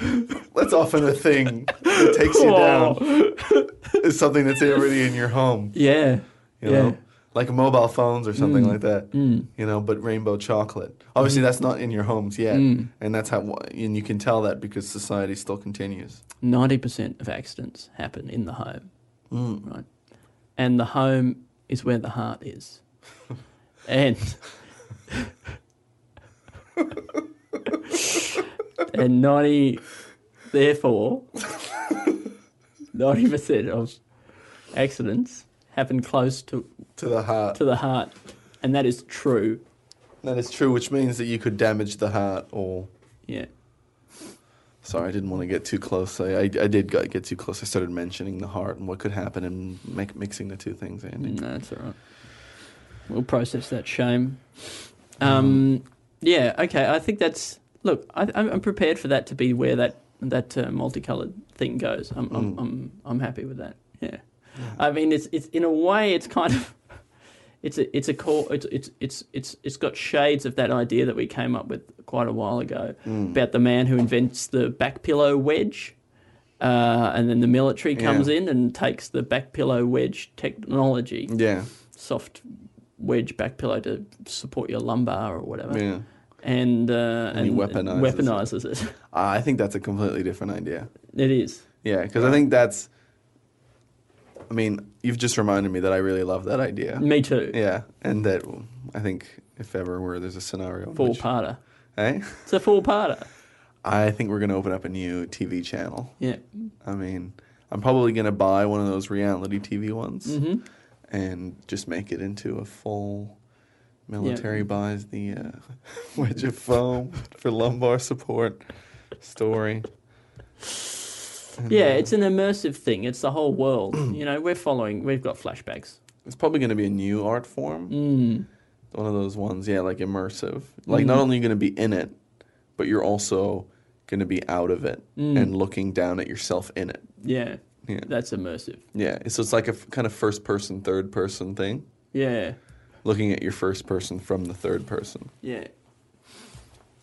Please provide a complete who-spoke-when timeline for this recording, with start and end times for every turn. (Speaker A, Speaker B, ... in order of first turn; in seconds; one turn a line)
Speaker A: 0.3-3.1
Speaker B: 1.9-3.8
Speaker A: 4.0-5.8
Speaker B: 5.7-7.0
Speaker A: 6.6-16.2
Speaker B: 8.4-9.5
Speaker B: 12.5-12.9
Speaker B: 16.4-18.9
Speaker A: 19.3-19.6
Speaker B: 20.6-22.8
Speaker B: 23.9-24.4
Speaker B: 27.9-28.4
Speaker B: 28.9-29.8
Speaker B: 30.5-31.3
Speaker B: 32.9-34.0
Speaker B: 34.7-36.7
Speaker A: 37.0-37.6
Speaker B: 37.5-39.6
Speaker A: 40.2-42.9
Speaker A: 44.8-51.4
Speaker B: 51.2-52.0
Speaker B: 53.1-54.6
Speaker B: 55.2-66.8
Speaker A: 55.2-55.6
Speaker A: 62.3-62.6
Speaker B: 67.6-76.0
Speaker A: 73.0-73.4
Speaker B: 76.6-81.3
Speaker A: 78.0-78.3
Speaker A: 81.3-81.7
Speaker B: 81.9-82.5
Speaker B: 83.0-85.8
Speaker A: 85.7-86.1
Speaker B: 86.4-89.0
Speaker A: 87.3-88.5
Speaker A: 89.1-90.9
Speaker B: 91.1-91.7
Speaker A: 91.8-92.9
Speaker B: 92.2-92.4
Speaker A: 94.5-101.3
Speaker B: 97.0-97.6
Speaker B: 101.0-101.6
Speaker A: 102.0-102.5
Speaker B: 102.5-103.3
Speaker A: 103.8-106.2
Speaker B: 106.2-106.7
Speaker A: 106.8-110.4
Speaker B: 110.3-110.6
Speaker A: 111.1-113.4
Speaker A: 114.1-118.6
Speaker B: 114.2-114.5
Speaker A: 119.2-119.9
Speaker A: 121.6-122.1
Speaker B: 121.7-126.0
Speaker A: 126.2-128.0
Speaker B: 127.9-128.5
Speaker A: 128.9-132.2
Speaker B: 130.9-131.2
Speaker A: 132.8-137.1
Speaker B: 135.2-135.5
Speaker B: 137.2-138.8
Speaker A: 138.9-141.9
Speaker B: 142.1-142.6
Speaker A: 143.0-145.3
Speaker B: 145.4-145.7